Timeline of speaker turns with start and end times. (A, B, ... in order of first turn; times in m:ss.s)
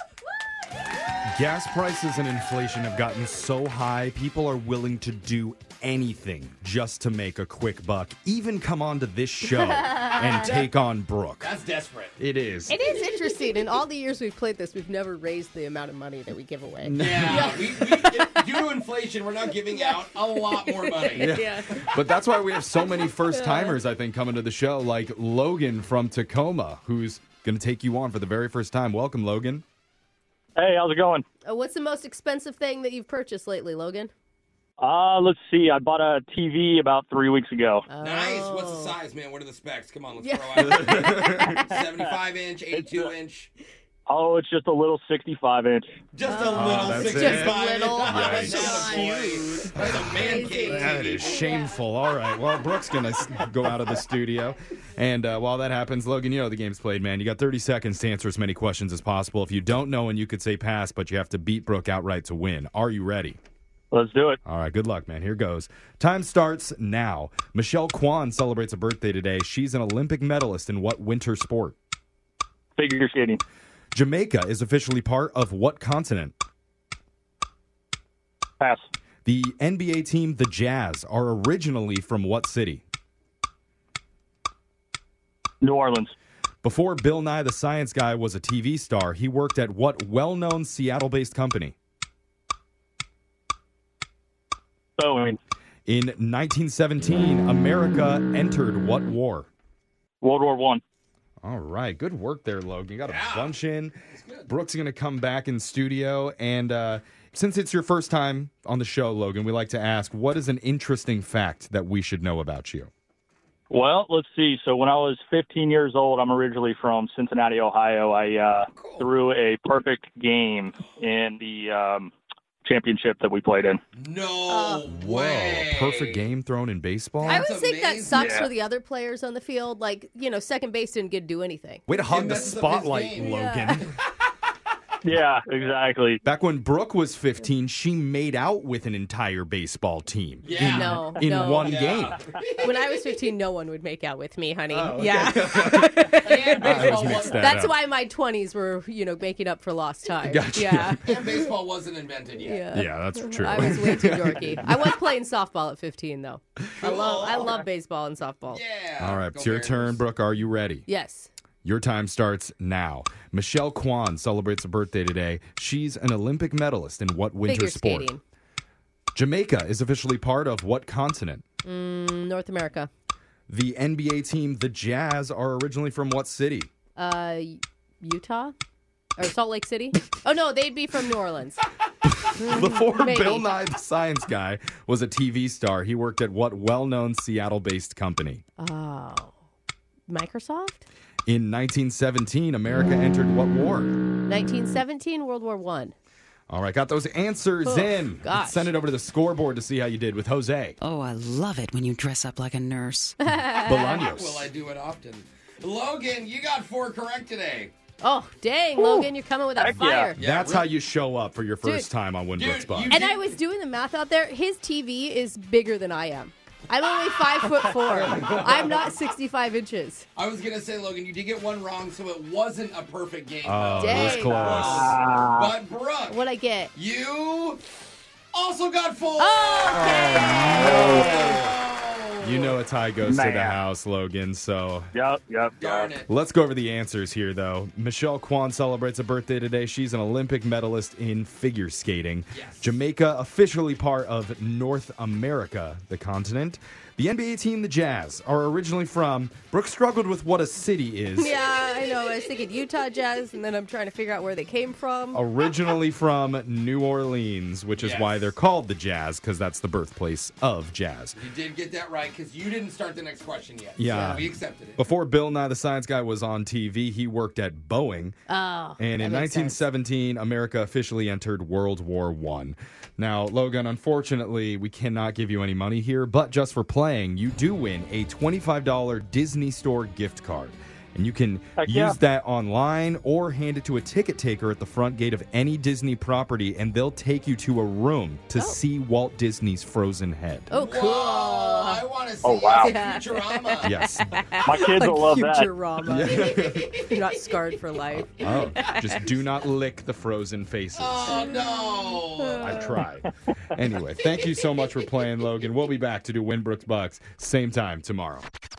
0:01.3-0:11.5 A
0:09.5-0:10.5 B
0:11.4-0:12.2 C
0:12.2-0:12.8 A
0:12.7-0:18.1 B
0:16.8-0:18.0 A
0:17.0-0:21.3 C
0:19.7-0:21.9 B
0:21.2-0:29.6 A
0:23.0-0:23.8 B
0:30.6-0:31.2 D
0:31.4-0:34.1 B
0:34.8-0:37.9 D
0:37.9-0:39.0 B
0:38.0-0:43.5 C
0:40.2-0:41.7 B
0:40.6-0:41.5 A
0:42.7-0:43.1 D
0:44.1-0:45.9 D
0:46.1-0:51.4 C
0:46.2-0:49.1 B
0:46.5-0:48.8 A
0:48.9-0:49.4 E
0:49.7-0:50.1 A
0:50.0-0:51.7 B
0:50.6-1:03.4 A
1:03.9-1:04.4 D
1:04.4-1:11.8 A
1:12.8-1:13.4 D
1:13.9-1:16.3 A
1:18.6-1:18.8 D
1:19.2-1:22.8 A
1:25.6-1:26.1 D
1:26.6-1:31.7 A
1:35.0-1:35.4 D
1:35.9-1:39.5 A
1:40.2-1:40.8 D
1:41.4-1:44.0 A
1:43.0-1:43.5 C
1:44.1-1:44.5 C
1:44.5-1:52.9 A
1:53.7-2:02.1 D
1:58.7-1:59.1 C
2:02.6-2:03.8 D
2:03.9-2:06.2 C
2:04.5-2:04.9 B
2:05.0-2:07.4 A
2:07.2-2:08.5 C
2:07.3-2:12.4 B
2:08.1-2:08.5 D
2:11.9-2:13.9 A
2:12.1-2:13.3 C
2:13.1-2:13.8 B
2:15.0-2:16.2 D
2:16.2-2:22.2 A
2:20.4-2:22.8 C
2:20.6-2:21.8 B
2:22.6-2:31.5 B
2:24.7-2:27.7 A
2:26.2-2:27.6 C
2:30.2-2:31.0 A
2:31.0-2:32.6 C
2:32.4-2:38.6 B
2:32.7-2:34.9 A
2:36.8-2:37.6 C
2:38.5-2:40.0 C
2:39.0-2:40.8 A
2:40.9-2:41.3 B
2:41.6-2:48.1 A
2:47.4-2:48.2 B
2:49.1-2:51.4 A
2:51.6-2:52.9 B
2:53.5-2:56.7 A
2:57.0-2:58.5 B
2:59.2-3:01.6 B
3:02.0-3:08.4 A
3:02.3-3:03.5 B
3:08.6-3:09.3 B
3:10.1-3:10.8 B
3:11.2-3:13.9 A
3:14.3-3:15.9 B
3:16.5-3:20.8 A
3:17.6-3:18.7 B
3:20.8-3:23.2 E
3:23.2-3:24.0 B
3:23.6-3:24.5 A
3:23.8-3:27.7 C
3:28.0-3:30.2 B
3:28.8-3:30.1 D
3:30.2-3:30.7 C
3:30.2-3:33.0 A
3:32.3-3:33.3 C
3:32.9-3:40.0 B
3:37.8-3:38.8 C
3:40.2-3:46.2 C
3:43.4-3:45.0 A
3:43.8-3:44.8 B
3:44.7-3:45.5 D
3:46.1-3:46.7 B
3:46.7-3:47.6 C
3:48.3-3:52.6 C
3:49.2-3:51.4 B
3:50.6-3:51.1 D
3:52.2-3:54.9 A
3:53.0-3:53.6 D
3:54.9-3:55.9 D
3:55.6-3:56.1 C
3:56.1-4:11.3 A
4:02.3-4:02.7 C
4:11.2-4:15.2 B
4:15.1-4:21.2 A
4:17.8-4:18.3 C
4:21.2-4:24.8 C
4:23.8-4:28.2 A
4:23.9-4:24.2 B
4:28.3-4:29.6 B
4:28.8-4:50.5 A
4:41.6-4:42.0 D
4:50.5-4:51.8 B
4:50.6-4:53.8 C
4:52.2-4:52.7 D
4:52.5-4:59.1 B
4:53.6-4:54.1 A
4:54.4-4:55.5 D
4:55.8-4:56.9 A
4:58.1-5:01.3 A
5:00.8-5:02.6 C
5:01.1-5:02.8 B
5:02.4-5:08.3 A